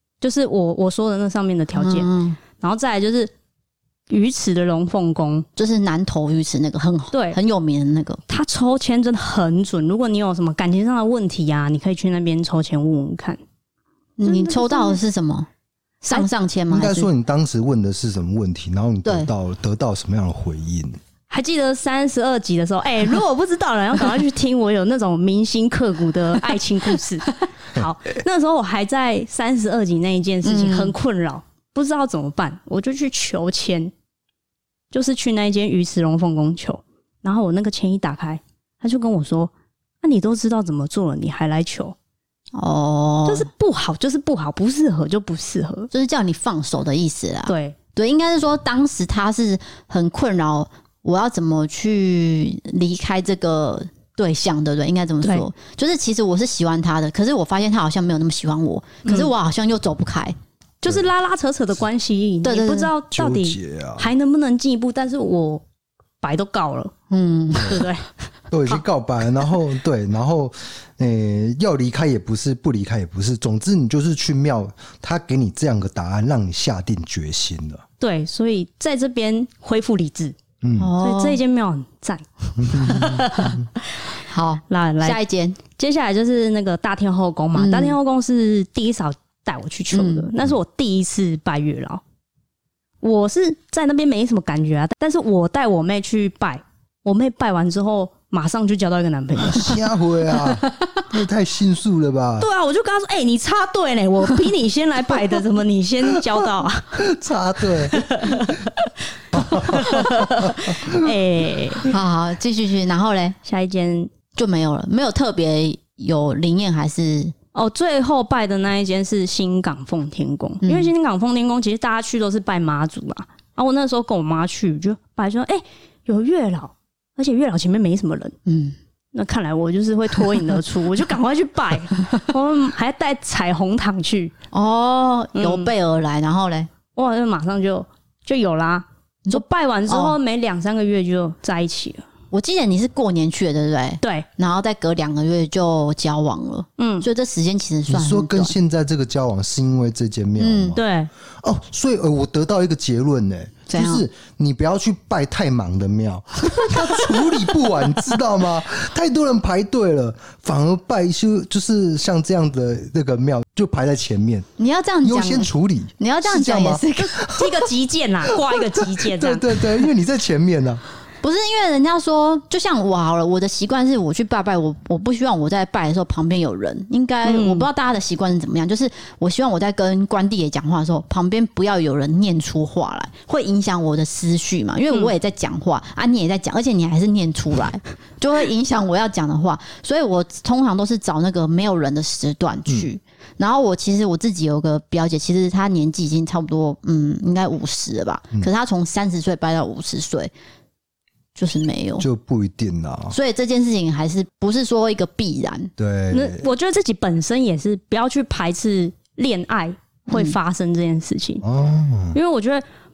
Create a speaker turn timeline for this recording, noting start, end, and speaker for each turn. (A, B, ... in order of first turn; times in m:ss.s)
0:00.2-0:03.3 A
0:01.8-0:02.4 B
0:04.1-0:05.4 A
0:05.6-0:08.4 B
0:07.1-0:07.4 A
0:08.3-0:13.4 A
0:14.2-0:15.5 B
0:14.2-0:15.0 A
0:16.0-0:17.1 B
0:16.7-0:21.0 C
0:21.3-0:33.9 A
0:30.4-0:30.9 B
0:34.9-0:39.5 A
0:40.0-0:41.9 A
0:42.5-0:43.5 B
0:43.2-0:45.9 A
0:45.9-1:00.4 B
0:47.5-0:47.8 A
0:55.2-0:55.5 A
0:59.0-0:59.3 A
1:00.8-1:05.6 A
1:02.4-1:02.9 B
1:03.1-1:04.1 C
1:06.2-1:06.9 A
1:07.1-1:07.8 B
1:07.5-1:08.1 A
1:07.6-1:07.8 C
1:08.5-1:17.8 C
1:18.0-1:20.4 A
1:20.6-1:20.9 C
1:20.8-1:21.4 B
1:21.0-1:24.1 A
1:22.6-1:23.6 C
1:24.2-1:25.6 B
1:24.7-1:25.2 A
1:25.7-1:32.0 A
1:27.5-1:28.0 B
1:29.9-1:30.3 B
1:33.0-1:39.8 A
1:39.4-1:42.5 C
1:42.4-1:47.0 A
1:46.1-1:46.4 C
1:46.9-1:48.6 C
1:47.6-1:51.9 A
1:49.3-1:51.1 C
1:51.9-1:53.4 B
1:53.4-1:54.1 A
1:54.4-1:57.3 B
1:57.5-2:08.3 A
2:00.6-2:00.9 B
2:08.4-2:08.8 B
2:09.1-2:14.3 A
2:14.5-2:16.7 B
2:15.4-2:15.7 A
2:16.9-2:22.0 A
2:19.2-2:20.2 B
2:22.3-2:28.5 B
2:26.8-2:27.0 A
2:27.9-2:30.8 C
2:30.4-2:30.8 B
2:30.8-2:31.1 A
2:31.4-2:44.5 C
2:33.7-2:34.0 B
2:44.6-2:47.2 B
2:45.0-2:47.6 C
2:47.2-2:49.5 A
2:48.3-2:50.8 C
2:51.2-3:20.3 B
2:57.2-2:57.7 A
3:21.3-3:22.0 B
3:22.0-3:23.2 C
3:23.1-3:25.7 B
3:25.8-3:26.4 C
3:26.1-3:31.4 A
3:30.1-3:30.4 B
3:31.4-3:32.2 C
3:32.1-3:32.6 A